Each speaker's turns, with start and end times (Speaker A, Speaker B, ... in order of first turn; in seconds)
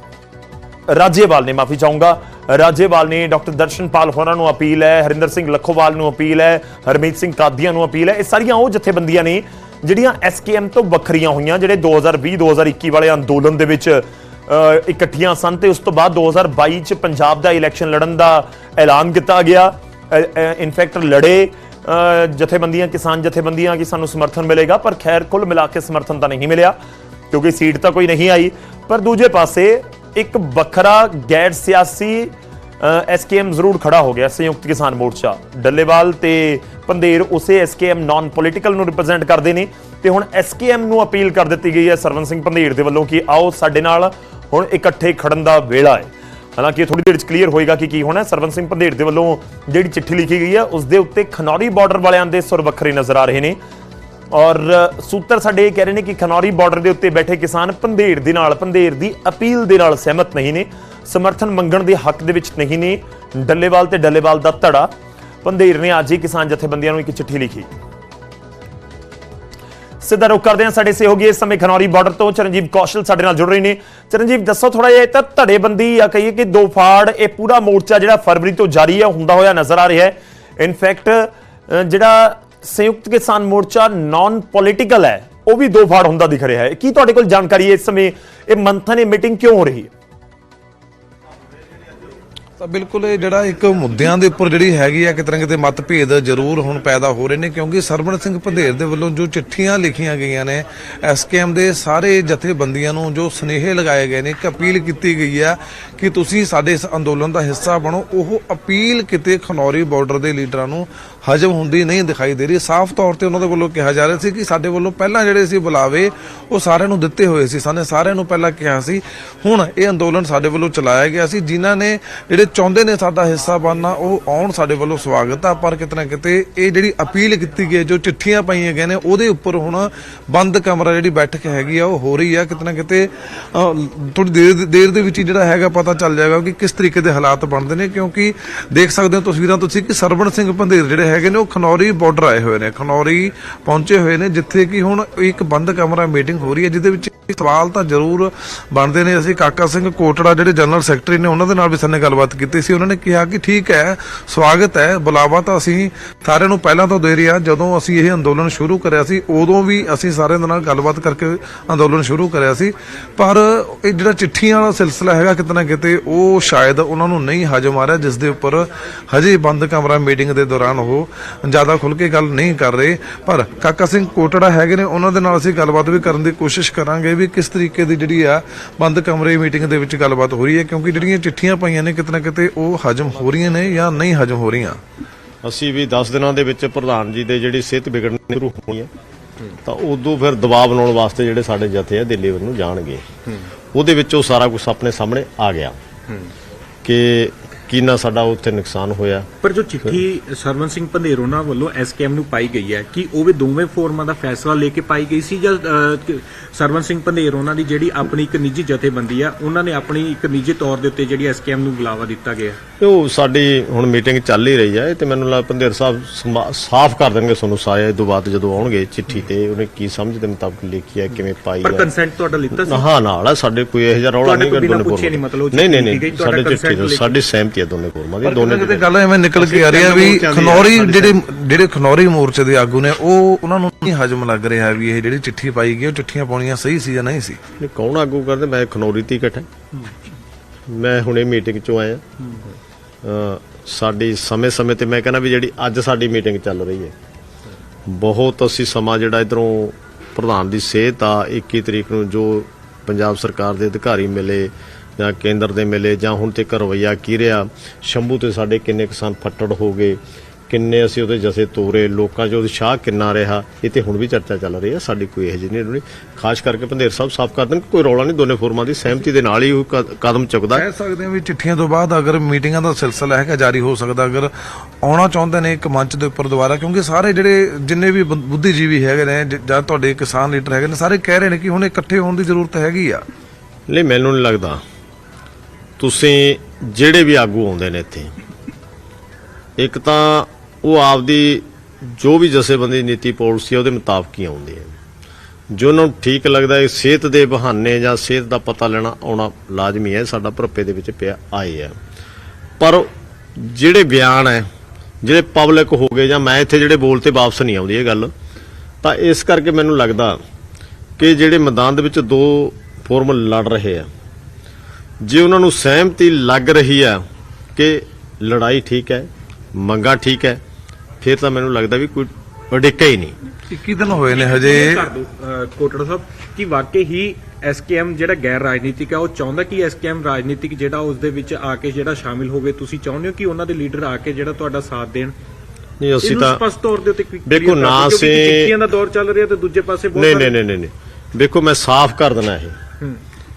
Speaker A: 0.9-26.7, 27.3-53.6, 54.3-64.9, 65.4-67.7, 70.0-89.9
Speaker B: 92.6-184.8, 228.2-237.4, 270.5-274.3, 274.8-283.0, 323.5-324.9
Speaker C: 185.4-188.9, 189.6-193.0, 193.7-195.8, 196.8-199.3, 212.8-221.9, 222.6-228.8, 229.4-231.1, 237.6-239.5, 240.7-242.0, 243.0-246.9, 247.8-270.6, 283.7-284.6, 285.8-288.1, 289.6-294.7, 295.5-301.8, 302.6-304.4, 305.0-308.1, 308.8-310.2, 311.0-313.9, 315.0-317.0, 317.6-320.4, 321.0-323.1, 335.8-336.4, 337.2-338.5, 339.9-342.6
Speaker D: 199.4-212.6, 221.6-222.8, 224.2-227.1, 324.1-335.1, 336.0-340.3